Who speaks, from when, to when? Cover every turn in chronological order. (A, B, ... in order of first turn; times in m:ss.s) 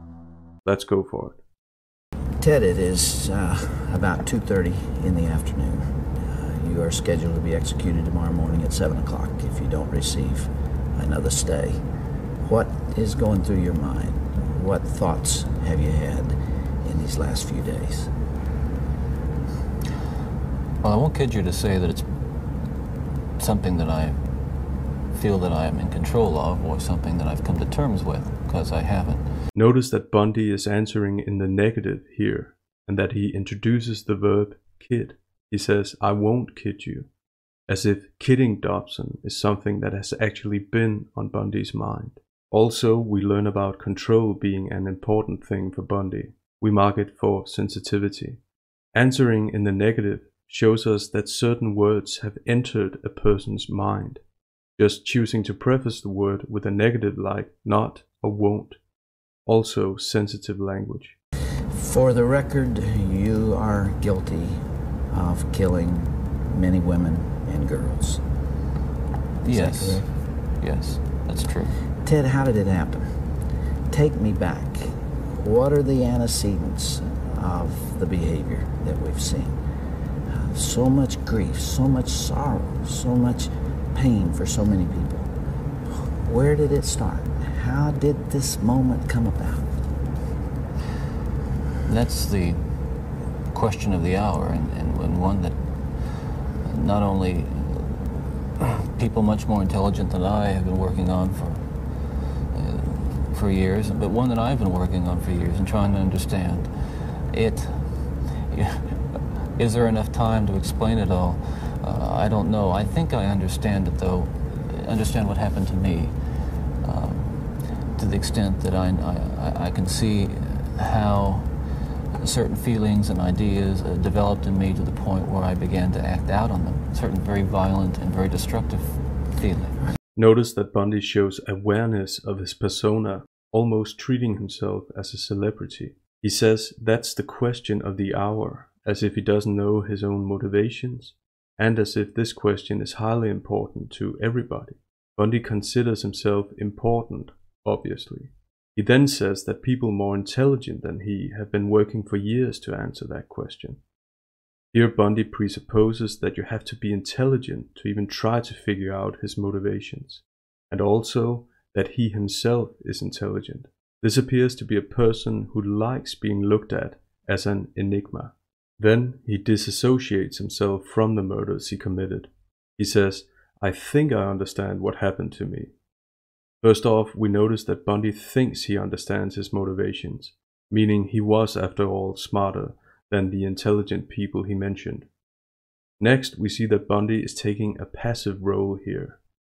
0:00.6-0:01.4 A
0:02.4-0:11.8 B
0:12.4-0:18.1 B
0:20.8-0:22.3 C
0:23.4-0:24.3 C
0:25.1-0:29.2 C
0:29.5-0:37.1 A
0:37.7-0:48.4 A
0:48.9-0:54.2 A
0:54.8-0:58.8 A
0:59.4-1:01.2 A
1:01.7-1:08.2 B
1:09.4-1:10.1 B
1:09.4-1:11.8 C
1:12.0-1:13.2 B
1:13.9-1:19.6 B
1:20.3-1:25.3 B
1:25.8-1:29.7 B
1:31.8-1:32.8 C
1:33.5-1:46.7 C
1:47.3-1:56.1 C
1:56.7-2:01.5 C
2:02.2-2:09.8 C
2:10.2-2:33.8 A
2:34.7-2:55.7 A
2:56.6-3:05.1 A
3:06.0-3:09.2 A